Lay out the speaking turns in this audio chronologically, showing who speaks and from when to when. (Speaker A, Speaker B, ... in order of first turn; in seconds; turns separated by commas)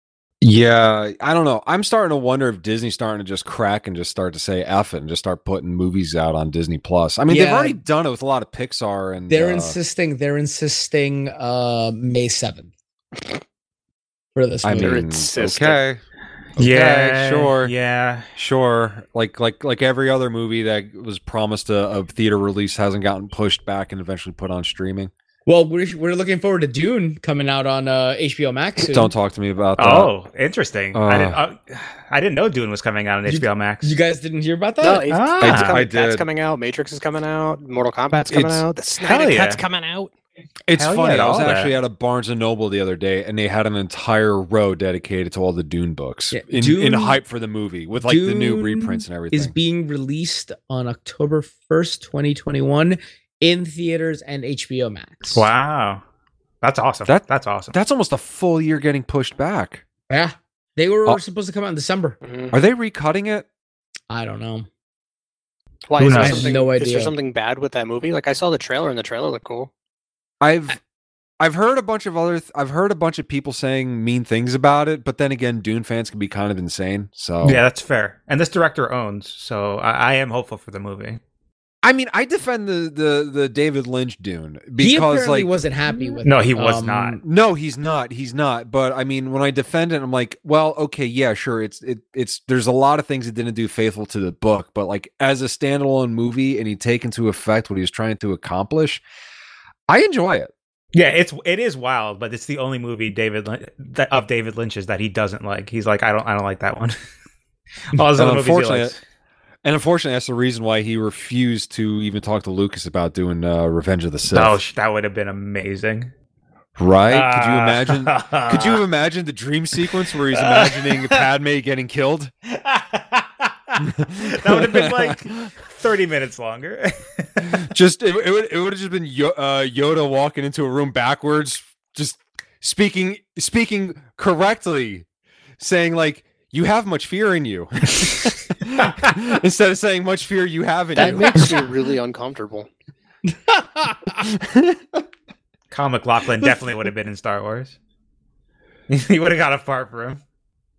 Speaker A: 0.4-9.8, Speaker B: 7.3-7.8, Speaker B: 9.3-12.7, Speaker B: 14.3-15.0, Speaker A: 14.6-16.0, Speaker C: 14.8-15.8, Speaker A: 16.6-17.7, Speaker D: 16.6-18.3, Speaker A: 18.4-25.1, Speaker B: 25.5-29.1, Speaker A: 28.8-30.1, Speaker D: 29.8-34.0, Speaker A: 30.9-31.4, Speaker B: 33.3-35.1, Speaker C: 34.8-40.1, Speaker D: 35.1-35.8, Speaker A: 35.4-36.3, Speaker A: 38.3-38.6, Speaker D: 39.0-39.6, Speaker A: 40.7-49.5, Speaker D: 40.8-41.8, Speaker B: 46.3-47.2, Speaker B: 48.0-55.5, Speaker D: 55.3-56.0, Speaker D: 56.6-57.7, Speaker A: 57.1-59.8, Speaker B: 60.1-62.2, Speaker C: 62.2-62.6, Speaker A: 62.5-63.5, Speaker B: 64.1-64.7, Speaker C: 65.9-69.7, Speaker B: 66.0-67.1, Speaker D: 66.0-66.5, Speaker A: 70.4-70.8, Speaker A: 71.4-77.6, Speaker D: 77.4-81.2, Speaker A: 81.8-85.5, Speaker B: 84.8-87.2, Speaker D: 86.3-87.2, Speaker A: 87.2-99.0, Speaker A: 99.9-100.5, Speaker D: 100.9-107.0, Speaker D: 107.9-109.0, Speaker A: 108.1-108.9, Speaker A: 109.6-114.6, Speaker D: 114.3-116.1, Speaker A: 116.8-122.3, Speaker D: 117.1-118.8, Speaker D: 120.3-121.2, Speaker D: 122.5-127.6, Speaker A: 123.8-125.5, Speaker A: 127.4-135.1, Speaker A: 135.6-141.7, Speaker C: 141.0-142.7, Speaker B: 141.0-141.4, Speaker B: 143.5-144.1, Speaker A: 144.3-144.8, Speaker D: 145.7-147.8, Speaker D: 148.9-150.2